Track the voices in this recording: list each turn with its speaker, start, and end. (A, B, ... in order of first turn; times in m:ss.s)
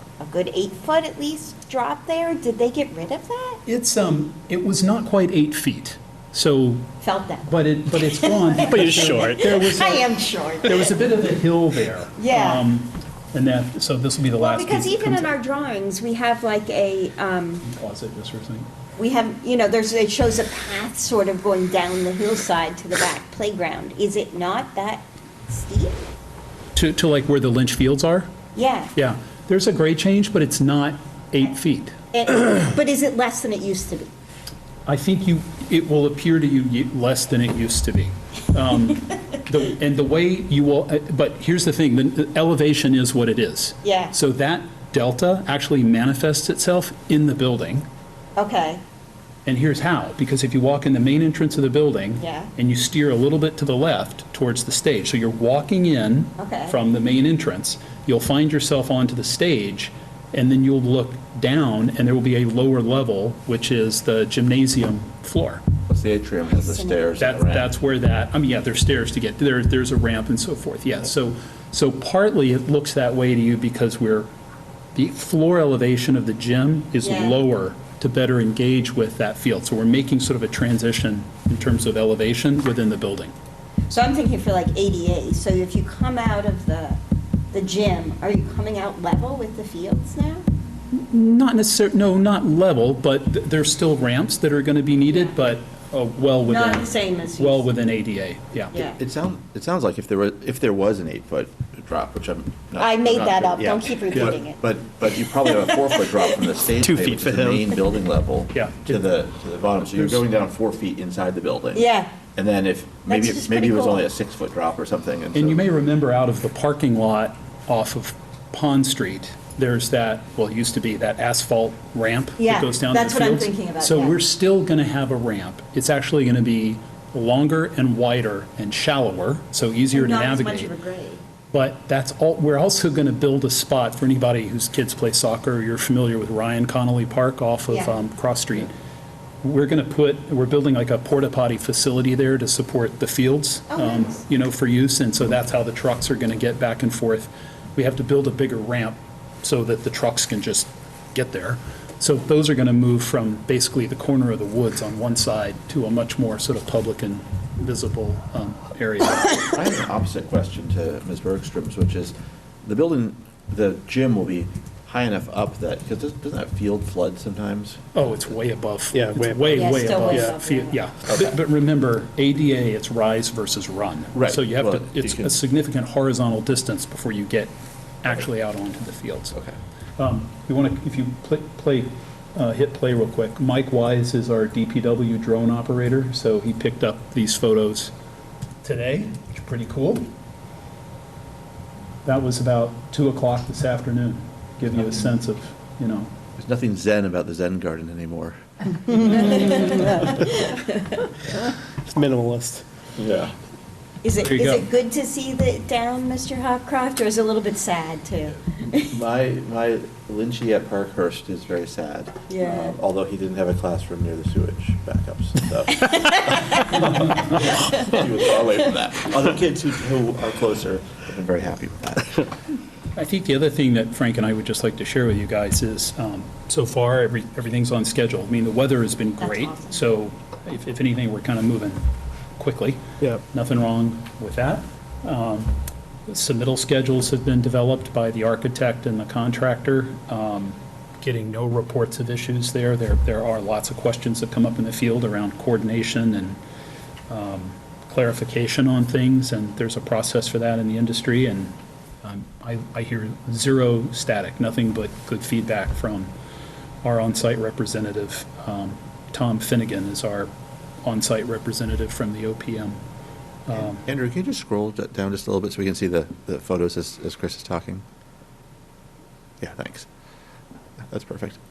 0:00.2-0:03.6 A
0:03.7-0:06.9 B
0:07.0-0:07.5 A
0:07.5-0:10.0 B
0:08.0-0:10.9 A
0:08.6-0:09.7 C
0:10.6-0:15.3 B
0:12.2-0:12.6 A
0:14.4-0:17.6 A
0:17.6-0:18.7 B
0:19.0-0:26.0 A
0:26.8-0:28.3 B
0:28.5-0:28.9 A
0:29.0-0:32.0 B
0:32.1-0:34.1 A
0:34.9-0:47.9 B
0:43.8-0:44.1 A
0:48.4-0:48.8 A
0:49.4-1:05.6 B
0:52.2-0:52.5 A
0:56.4-0:56.8 A
1:05.9-1:07.7 D
1:06.6-1:07.2 A
1:07.2-1:14.3 B
1:15.0-1:23.3 B
1:17.0-1:17.4 A
1:23.9-1:27.0 A
1:27.5-1:30.4 A
1:30.9-1:38.7 B
1:36.4-1:37.7 A
1:38.7-1:39.0 A
1:39.0-1:55.6 D
1:42.8-1:44.6 A
1:46.8-1:47.2 C
1:47.1-1:47.6 B
1:48.5-1:49.0 B
1:51.8-1:52.1 A
1:53.1-1:54.0 A
1:55.3-2:10.7 B
2:02.4-2:04.2 A
2:09.9-2:11.2 A
2:11.5-2:18.7 B
2:17.7-2:18.0 A
2:19.4-2:39.5 B
2:23.7-2:24.2 A
2:39.4-2:47.9 D
2:48.0-2:57.5 B
2:48.9-2:50.4 C
2:49.5-2:50.8 A
2:54.2-2:55.4 D
2:58.0-2:59.4 B
3:00.0-3:07.9 B
3:08.6-3:10.1 B
3:12.0-3:16.1 B
3:16.4-3:18.4 D
3:18.8-3:21.2 A
3:19.6-3:20.1 C
3:21.4-3:22.6 C
3:23.0-3:23.3 D
3:24.0-3:28.9 A
3:24.2-3:24.7 B
3:28.8-3:42.2 D
3:32.3-3:32.8 A
3:35.8-3:36.6 A
3:43.0-3:51.8 B
3:49.2-3:49.8 A
3:52.4-3:55.6 B
3:56.1-4:06.4 B
4:07.1-4:16.1 B
4:16.8-4:20.3 B
4:20.8-4:22.8 B
4:23.5-4:23.8 B
4:23.5-4:27.8 D
4:29.4-4:29.9 D
4:30.8-4:31.4 D